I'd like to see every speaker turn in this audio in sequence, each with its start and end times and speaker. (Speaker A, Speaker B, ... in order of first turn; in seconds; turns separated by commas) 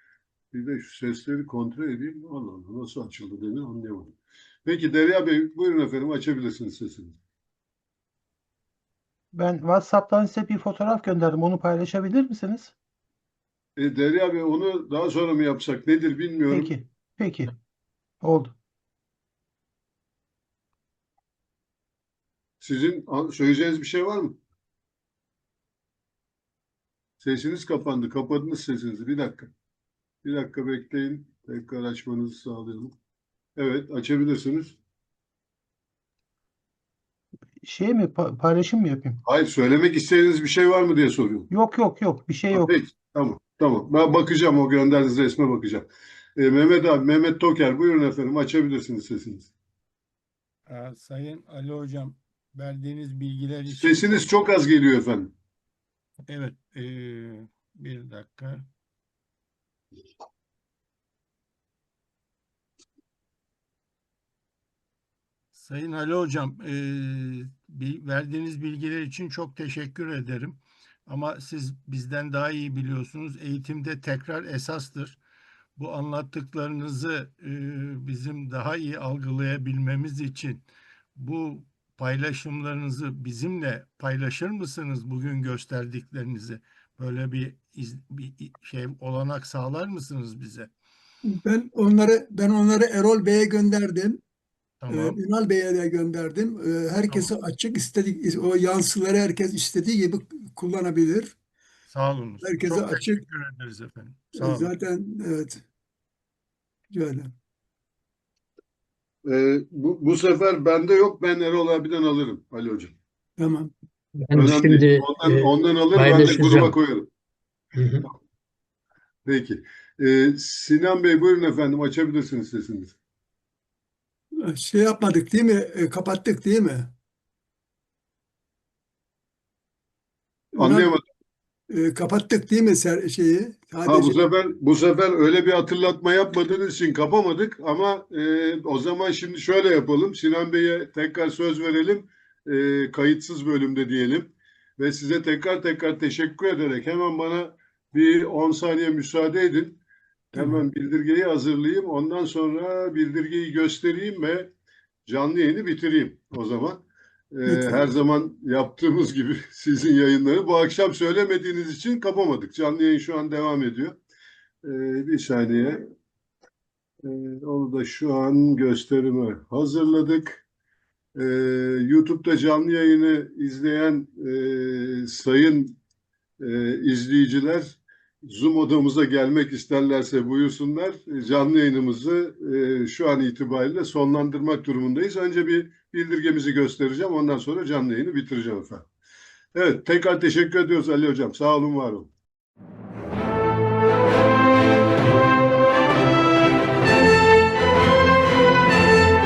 Speaker A: 0.5-4.1, Speaker A: 4.6-7.2, Speaker B: 9.3-12.7, Speaker A: 13.8-16.7, Speaker B: 16.5-17.4, Speaker B: 18.2-18.5, Speaker A: 22.6-24.4, Speaker A: 27.2-29.5, Speaker A: 30.2-32.9, Speaker A: 33.5-34.8, Speaker B: 37.6-39.2, Speaker A: 39.2-41.5, Speaker B: 41.5-42.7, Speaker A: 42.5-49.5, Speaker C: 50.7-54.3, Speaker A: 53.8-55.3, Speaker C: 56.3-58.6, Speaker C: 65.5-75.2, Speaker C: 75.8-80.6, Speaker C: 81.2-90.7, Speaker D: 91.2-94.2, Speaker C: 94.8-95.2, Speaker D: 94.9-101.3, Speaker C: 101.9-104.7, Speaker D: 102.4-103.2, Speaker D: 104.3-105.6, Speaker D: 106.9-107.3, Speaker A: 109.2-112.9, Speaker D: 113.4-113.7, Speaker E: 114.2-116.8, Speaker A: 114.3-117.1, Speaker E: 117.7-118.1, Speaker A: 119.2-123.0, Speaker D: 124.4-126.9, Speaker D: 130.5-130.9, Speaker A: 130.6-131.0, Speaker D: 131.7-134.2, Speaker A: 133.8-149.8, Speaker A: 150.3-154.5, Speaker A: 155.1-164.0, Speaker D: 157.4-157.8, Speaker A: 164.6-165.8, Speaker A: 167.0-170.4, Speaker A: 171.2-175.8, Speaker A: 176.4-188.9, Speaker A: 189.5-192.1